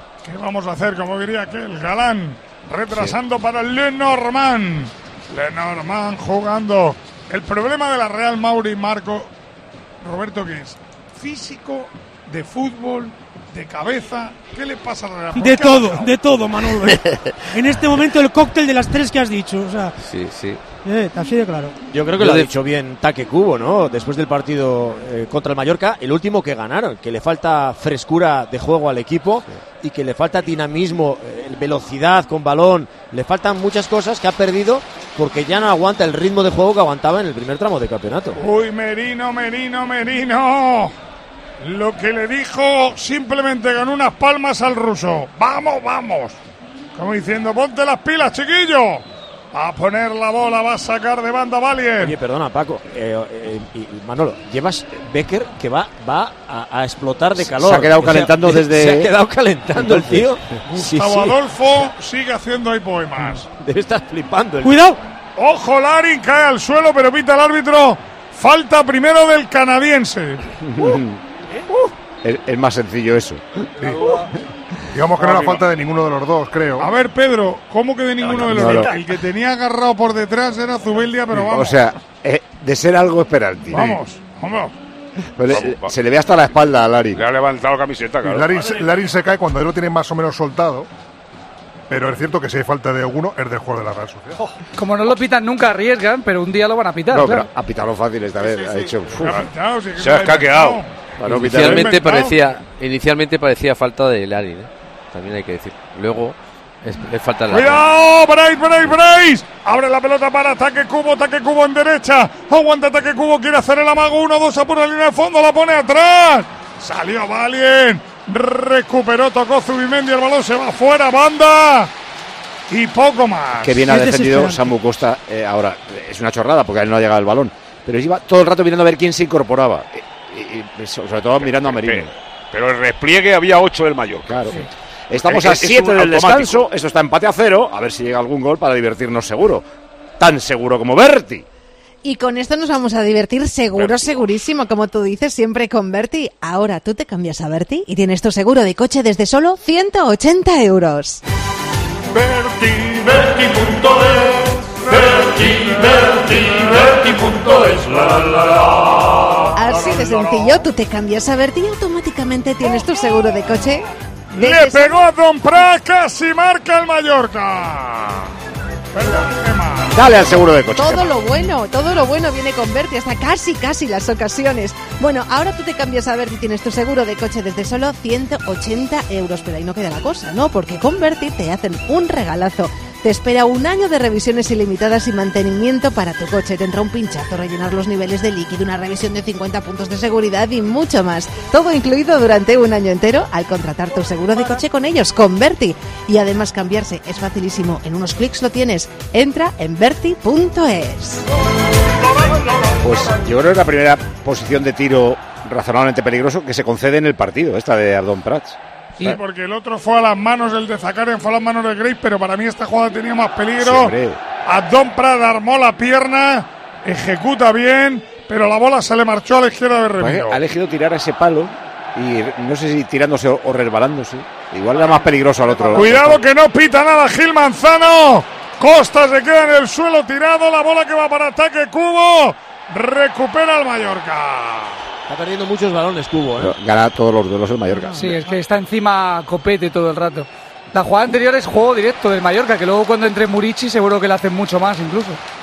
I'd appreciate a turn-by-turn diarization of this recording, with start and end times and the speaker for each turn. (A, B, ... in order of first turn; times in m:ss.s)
0:00.2-0:09.3 A
0:10.0-0:16.4 A
0:15.3-0:19.9 B
0:20.0-0:20.6 C
0:20.8-0:21.7 B
0:21.9-0:38.4 D
0:22.2-0:22.5 C
0:38.4-0:40.9 A
0:41.6-0:46.4 A
0:46.9-0:52.1 A
0:52.0-1:01.4 D
0:57.4-0:59.1 E
0:59.7-1:00.3 E
1:00.6-1:03.4 A
1:03.3-1:04.9 D
1:04.6-1:05.0 B
1:05.4-1:10.4 A
1:10.6-1:11.2 E
1:12.2-1:13.4 E
1:13.8-1:14.2 F
1:14.9-1:16.9 F
1:15.2-1:15.6 A
1:16.8-1:21.8 A
1:18.3-1:19.0 E
1:21.3-1:24.0 E
1:23.7-1:24.7 A
1:25.4-1:27.2 E
1:25.5-1:25.9 G
1:27.1-1:28.8 G
1:28.2-1:30.9 F
1:31.9-1:34.4 F
1:34.8-1:37.5 H
1:37.1-1:39.4 E
1:39.2-1:39.5 G
1:39.2-1:42.6 A
1:40.0-1:40.8 G
1:41.2-1:42.0 E
1:41.2-1:47.8 C
1:47.5-2:01.9 A
2:02.7-2:03.9 A
2:03.6-2:12.1 E
2:03.8-2:04.7 B
2:11.4-2:14.6 G
2:14.3-2:19.6 E
2:15.2-2:16.7 G
2:20.2-2:21.4 E
2:22.0-2:31.2 I
2:23.7-2:24.4 G
2:34.9-2:38.6 A
2:39.5-2:45.0 I
2:39.7-2:40.6 A
2:44.3-2:48.3 A
2:48.9-2:50.2 A
2:49.9-2:51.1 E
2:50.8-3:21.2 I
3:22.8-3:29.2 E
3:29.0-3:40.4 A
3:33.6-3:34.2 E
3:40.0-3:46.2 E
3:45.5-3:46.1 D
3:45.7-3:54.8 A
3:55.1-3:56.5 D
3:56.4-3:58.0 E
3:58.0-4:05.2 H